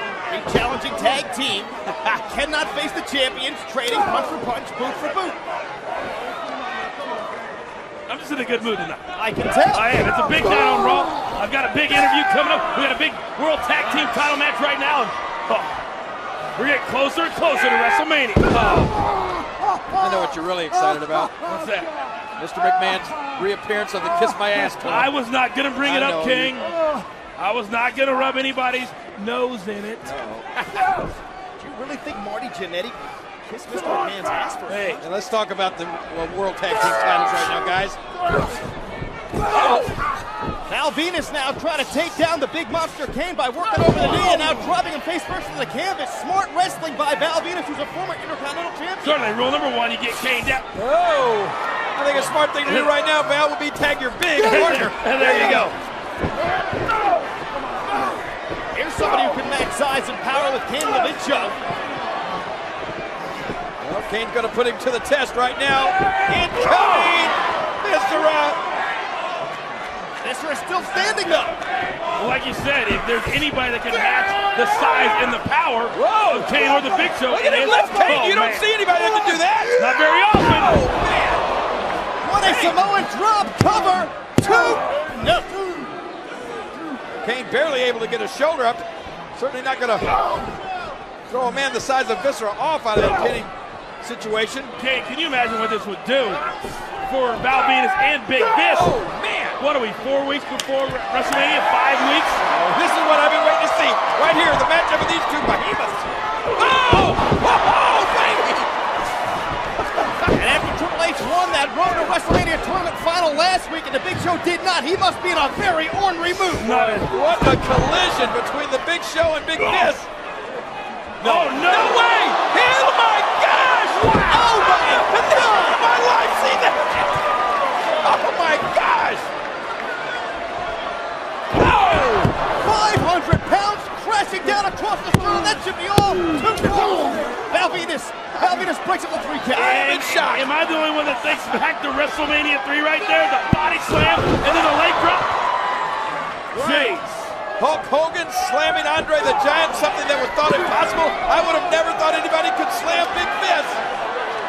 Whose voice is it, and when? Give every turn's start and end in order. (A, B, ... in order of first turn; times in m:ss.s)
0:00.3-0:05.4 A
0:08.1-0:09.0 B
0:09.2-0:09.9 A
0:09.7-0:15.7 B
0:16.6-0:18.6 B
0:20.0-0:21.5 C
0:21.5-0:21.9 B
0:22.4-0:25.1 C
0:24.8-0:26.7 B
0:25.8-0:26.6 C
0:27.4-0:30.1 B
0:30.0-0:30.8 C
0:31.6-0:34.8 A
0:34.7-0:35.0 B
0:35.0-0:38.0 C
0:39.5-0:40.0 B
0:40.7-0:49.1 A
0:49.0-0:50.7 B
0:50.8-0:55.7 C
0:52.6-0:52.9 B
0:54.4-0:55.8 B
0:58.7-1:01.6 A
1:03.8-1:08.6 C
1:10.2-1:11.6 A
1:12.2-1:18.7 B
1:15.9-1:19.8 C
1:19.8-1:21.0 B
1:20.8-1:21.4 C
1:22.2-1:26.0 A
1:22.4-1:22.8 C
1:27.2-1:28.8 C
1:29.4-1:30.1 C
1:31.3-1:34.7 C
1:34.8-1:36.4 B
1:37.0-1:39.0 B
1:38.6-1:39.6 C
1:39.6-1:42.4 B
1:42.5-1:48.7 C
1:50.3-1:56.7 A
1:56.6-1:57.1 B
1:56.6-2:00.1 C
1:59.6-1:59.9 B
2:01.2-2:02.5 B
2:01.2-2:07.1 C
2:04.3-2:05.8 A
2:08.0-2:09.3 C
2:11.6-2:12.3 C
2:12.5-2:20.1 A
2:19.5-2:20.5 C
2:20.1-2:25.3 B
2:26.5-2:27.3 B
2:26.6-2:27.0 A
2:26.6-2:26.9 C
2:27.6-2:33.8 C